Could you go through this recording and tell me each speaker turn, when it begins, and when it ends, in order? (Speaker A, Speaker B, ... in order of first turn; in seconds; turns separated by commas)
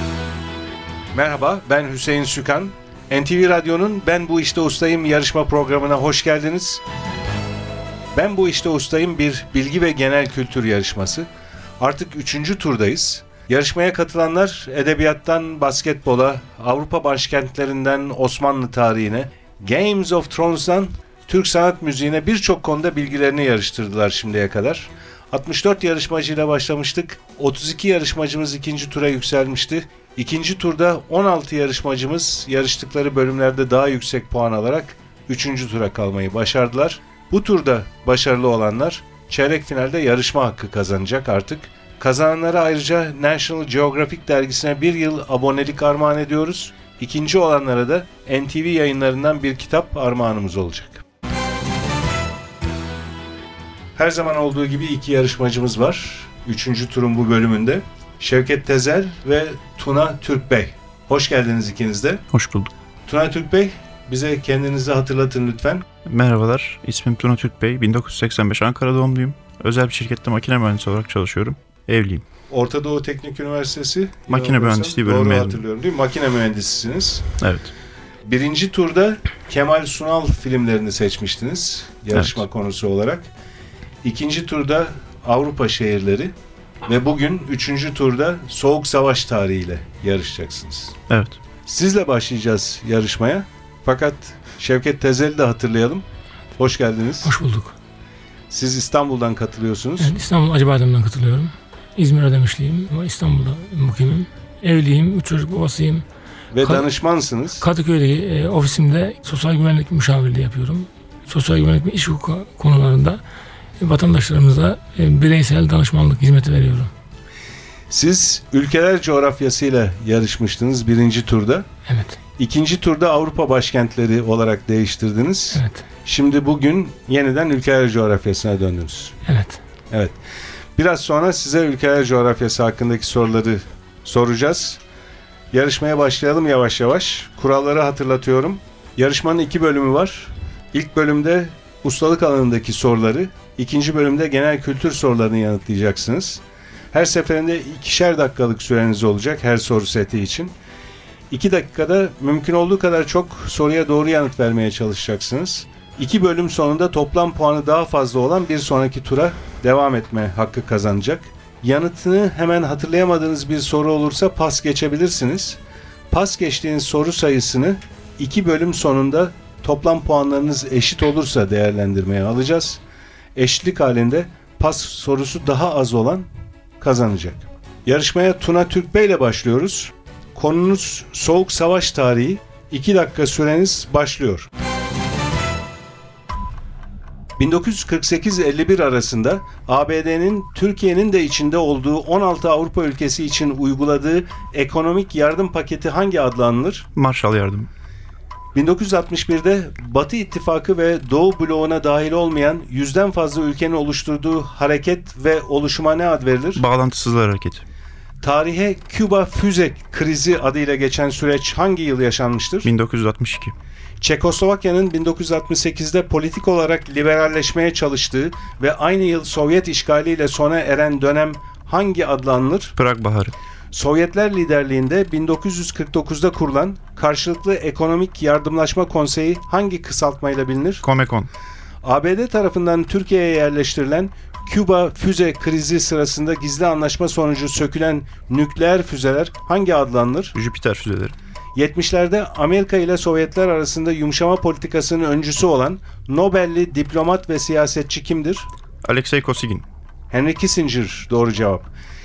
Speaker A: 1.1-6.8, Speaker A: 8.1-11.3, Speaker A: 11.8-51.0, Speaker A: 54.0-62.2, Speaker B: 62.3-62.7, Speaker A: 63.1-65.9, Speaker B: 66.0-72.2, Speaker A: 72.5-77.3, Speaker B: 74.3-75.6, Speaker B: 77.4-77.7, Speaker A: 78.2-83.3, Speaker B: 82.1-82.4, Speaker A: 84.0-86.3, Speaker A: 86.9-91.0, Speaker B: 91.1-91.4, Speaker A: 91.7-96.0, Speaker A: 96.6-97.3, Speaker C: 97.2-97.7, Speaker A: 98.5-100.1, Speaker C: 100.0-106.0, Speaker A: 106.5-107.7, Speaker C: 107.6-113.2, Speaker C: 113.8-116.9, Speaker A: 117.9-121.7, Speaker C: 121.9-122.2, Speaker A: 122.4-129.2, Speaker C: 125.5-125.8, Speaker C: 129.3-129.6, Speaker A: 130.8-134.8, Speaker A: 135.5-150.5, Speaker A: 151.3-165.6, Speaker A: 166.1-172.8, Speaker A: 173.4-176.3, Speaker A: 176.8-184.5, Speaker A: 187.4-196.9, Speaker B: 196.9-197.7, Speaker A: 198.5-206.6, Speaker B: 206.6-207.6, Speaker A: 208.2-212.7, Speaker B: 212.6-213.6, Speaker A: 214.0-222.8, Speaker B: 222.8-223.3, Speaker A: 223.7-230.8, Speaker B: 230.8-231.3, Speaker A: 231.8-240.4, Speaker B: 240.3-241.2, Speaker A: 241.6-248.5, Speaker B: 248.8-249.7, Speaker A: 250.1-251.7